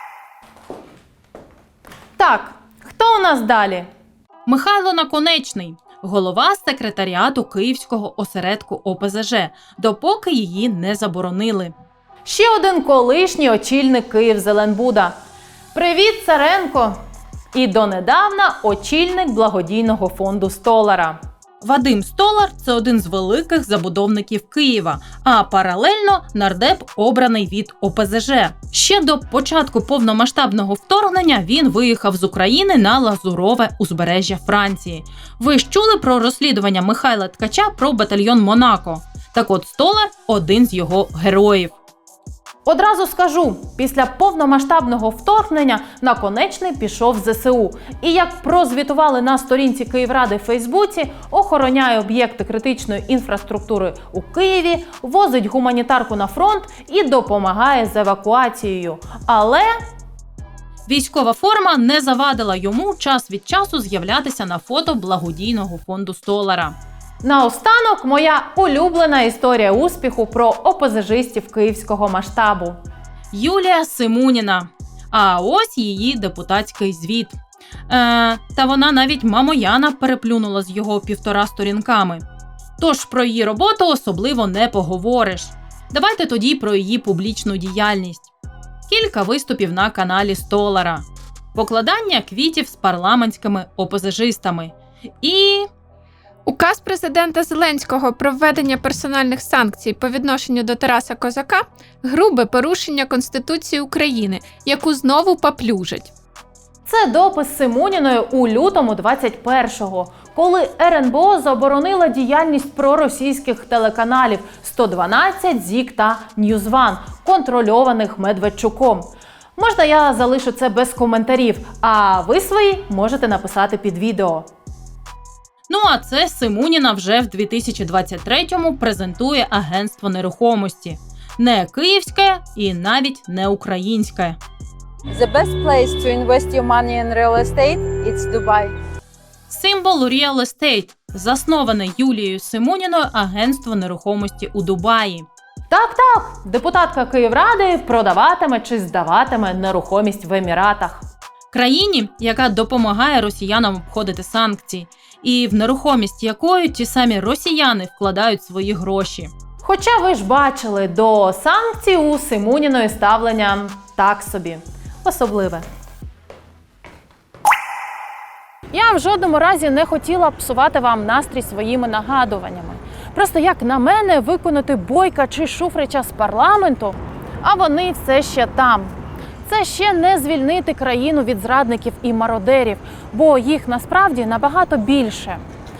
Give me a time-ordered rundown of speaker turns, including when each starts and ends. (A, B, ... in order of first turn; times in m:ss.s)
0:02.2-0:03.9 A
0:04.4-0:11.7 B
0:12.2-0:15.1 A
0:15.7-0:16.9 A
0:17.5-0:21.1 A
0:21.6-0:41.7 B
0:42.6-0:59.7 A
1:00.9-1:06.8 B
1:07.2-1:12.8 A
1:13.3-1:17.4 B
1:17.9-1:22.2 B
1:22.8-1:28.3 B
1:28.9-1:35.7 B
1:36.4-1:46.1 C
1:46.9-2:04.5 A
2:05.7-2:14.4 B
2:15.1-2:18.7 D
2:19.5-2:25.3 B
2:25.7-2:31.0 A
2:31.5-2:39.3 B
2:39.6-2:45.6 A
2:48.7-2:58.9 A
2:59.5-3:05.4 A